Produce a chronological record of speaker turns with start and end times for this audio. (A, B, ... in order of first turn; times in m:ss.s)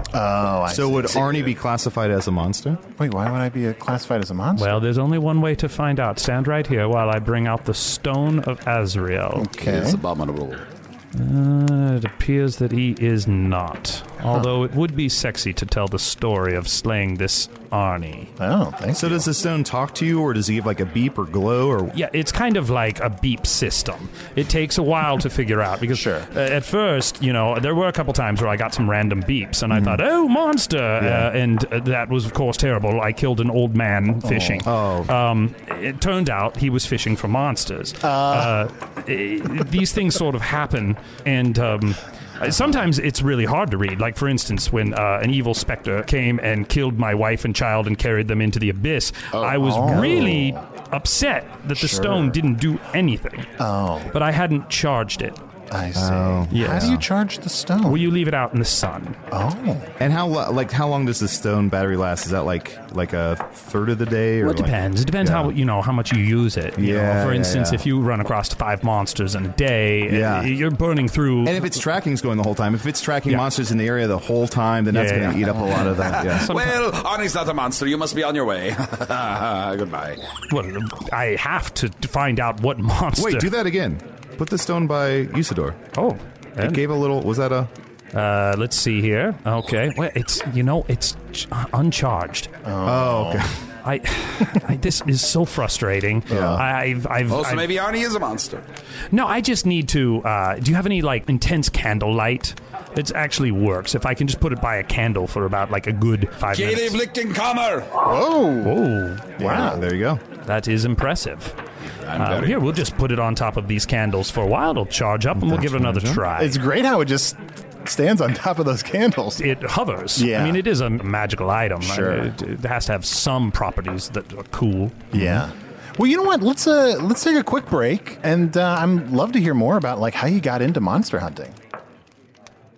0:00.1-0:01.4 A
0:00.7-0:02.8 B
0:03.0-0:04.8 A
0:04.6-0:09.5 C
0:09.4-0:10.0 A
0:09.6-0:10.6 D
0:11.1-0:18.3 C
0:18.4-0:19.3 A
0:18.9-0:21.9 B
0:21.9-0:53.5 C
0:25.9-0:26.3 A
0:29.7-0:30.0 A
0:31.0-0:31.3 B
0:34.2-0:34.7 A
0:34.6-0:35.1 B
0:38.0-0:38.6 A
0:49.6-0:50.6 A
0:49.8-0:50.3 B
0:51.7-0:52.4 A
0:53.6-0:54.1 A
0:54.1-0:55.4 C
0:55.7-0:58.0 A
0:55.9-0:57.0 B
0:56.5-0:57.0 C
0:57.8-0:59.2 C
0:59.3-0:59.9 A
1:00.0-1:05.5 B
1:04.4-1:11.6 C
1:06.8-1:07.8 B
1:10.1-1:10.5 B
1:11.4-1:16.5 B
1:14.9-1:16.8 C
1:15.9-1:20.2 D
1:20.5-1:23.5 C
1:23.1-1:25.8 B
1:25.9-1:26.8 C
1:26.6-1:27.7 B
1:28.1-1:32.5 C
1:32.6-1:33.4 A
1:32.8-1:33.6 B
1:33.8-1:37.7 C
1:36.3-1:36.6 B
1:36.3-1:36.6 A
1:37.3-1:38.6 D
1:39.1-1:47.0 C
1:46.5-1:47.9 D
1:48.0-1:48.8 A
1:48.6-1:49.6 C
1:49.4-1:49.8 A
1:49.4-1:50.2 B
1:50.4-1:51.6 C
1:52.0-1:52.8 D
1:52.2-1:56.6 C
1:55.3-1:56.2 B
1:56.3-1:59.4 A
1:59.4-2:05.1 C
2:00.2-2:00.6 A
2:01.8-2:02.3 A
2:05.1-2:05.4 B
2:05.1-2:11.6 A